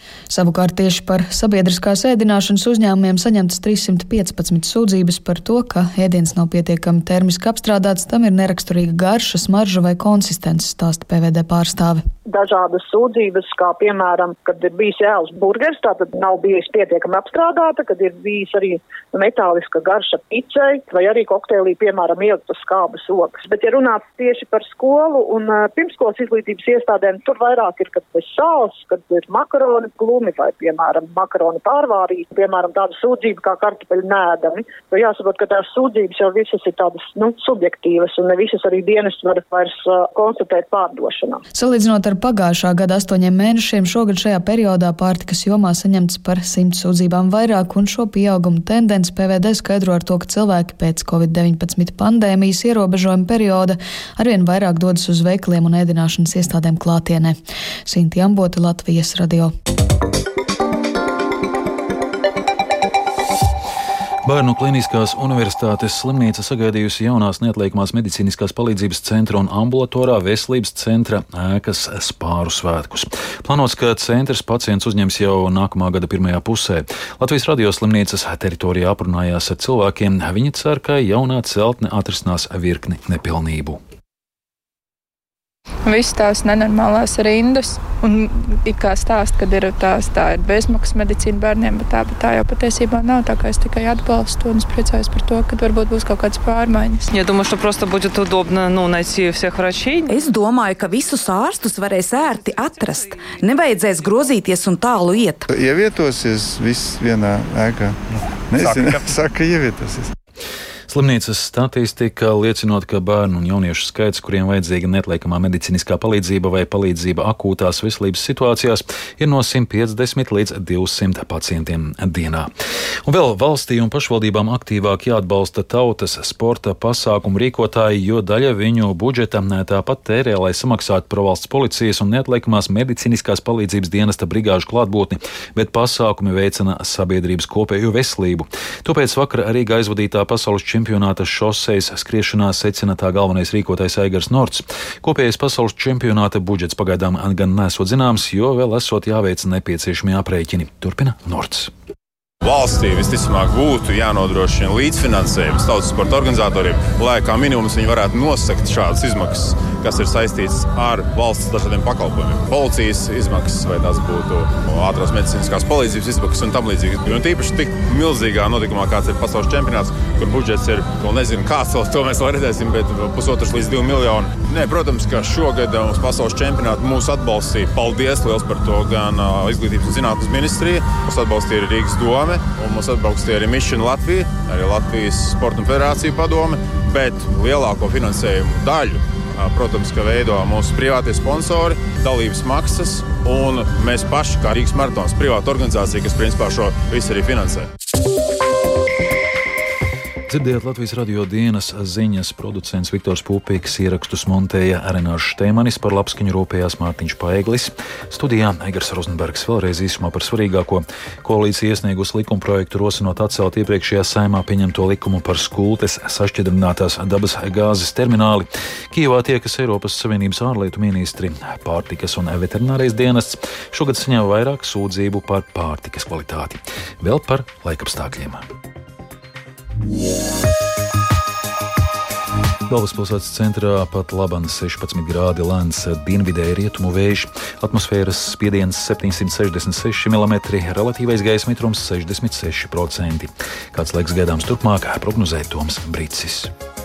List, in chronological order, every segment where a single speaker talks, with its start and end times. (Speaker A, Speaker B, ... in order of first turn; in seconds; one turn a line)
Speaker A: 0.3-12.0
Speaker B: 12.3-41.4
Speaker A: 41.5-59.5
Speaker C: 64.2-83.8
Speaker D: 85.8-97.4
Speaker E: 97.1-100.2
Speaker F: 100.1-105.4
Speaker E: 102.3-103.1
Speaker G: 105.4-110.1
Speaker C: 110.9-122.5
Speaker C: 123.0-151.7
Speaker H: 152.4-197.7
Speaker C: 200.3-228.4
Speaker C: 232.7-246.5